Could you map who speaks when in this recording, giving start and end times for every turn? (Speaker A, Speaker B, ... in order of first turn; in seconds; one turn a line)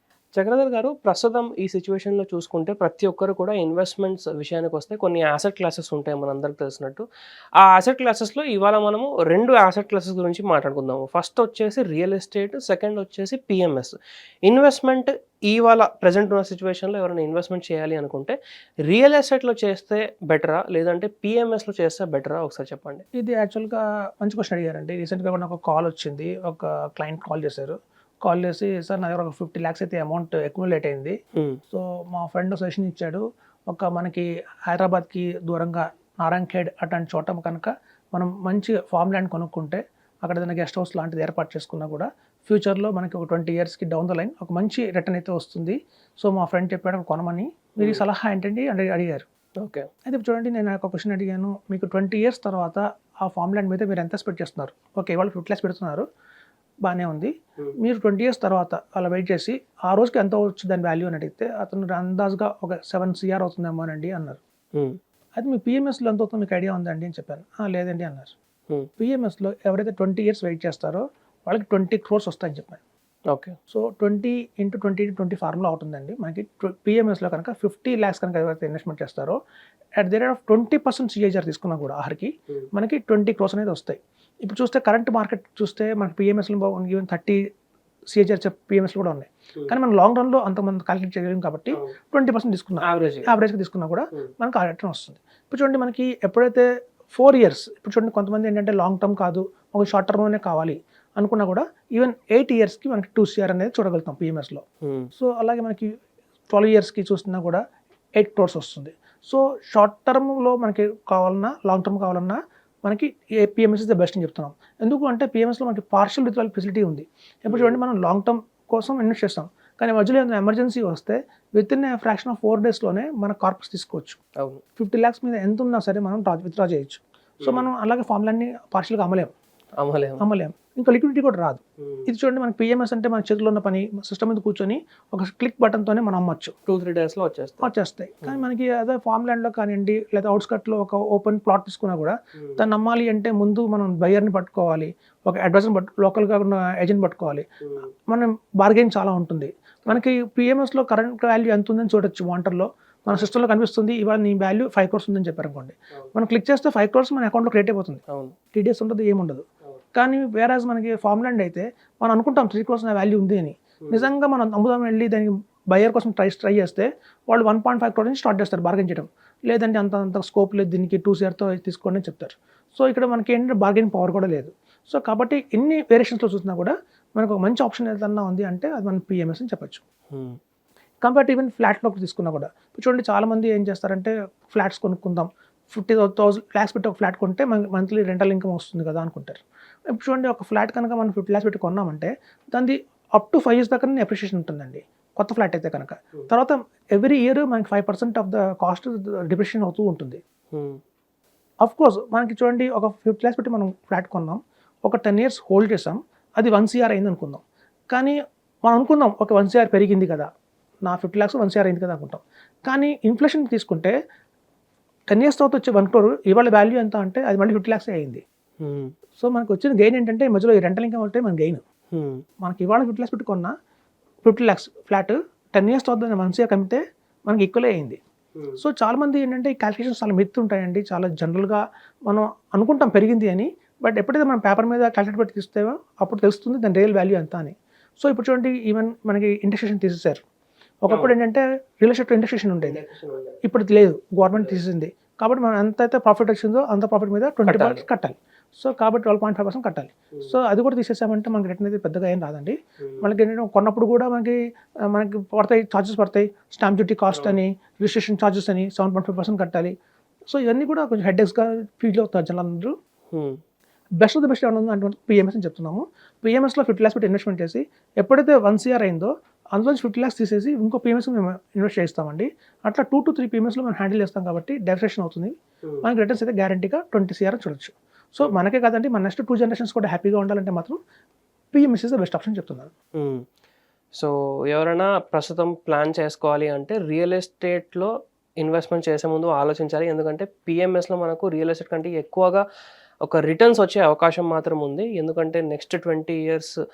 Speaker A: 0.3-7.0
Speaker A: 7.6-13.9
Speaker A: 14.5-18.4
Speaker A: 18.9-23.0
Speaker B: 23.1-31.2
Speaker B: 31.7-49.2
Speaker A: 49.6-49.9
Speaker B: 50.0-56.0
Speaker B: 56.8-64.4
Speaker B: 65.3-68.3
Speaker B: 69.0-72.8
Speaker B: 73.7-79.3
Speaker B: 80.0-87.4
Speaker B: 88.1-104.6
Speaker A: 92.8-93.3
Speaker A: 104.8-105.1
Speaker B: 105.2-105.9
Speaker B: 106.5-107.6
Speaker B: 108.2-124.2
Speaker A: 117.5-117.8
Speaker B: 124.8-129.3
Speaker A: 127.4-127.7
Speaker A: 129.8-130.2
Speaker B: 130.2-136.5
Speaker A: 136.7-137.7
Speaker B: 137.6-147.5
Speaker B: 148.1-158.0
Speaker B: 158.5-179.8
Speaker B: 181.0-200.2
Speaker A: 200.5-200.8
Speaker B: 201.6-210.3
Speaker B: 210.8-213.9
Speaker B: 215.1-218.2
Speaker A: 218.6-218.9
Speaker B: 219.2-221.6
Speaker A: 221.9-222.2
Speaker B: 222.4-223.5
Speaker B: 224.2-228.0
Speaker B: 228.6-240.2
Speaker B: 240.8-242.8
Speaker A: 242.6-243.4
Speaker B: 243.4-259.7
Speaker A: 244.3-244.6
Speaker A: 247.4-247.8
Speaker B: 260.3-262.7
Speaker A: 263.1-263.4
Speaker B: 264.0-280.8
Speaker B: 281.5-282.7
Speaker A: 283.0-283.2
Speaker A: 283.9-292.4
Speaker A: 293.0-296.5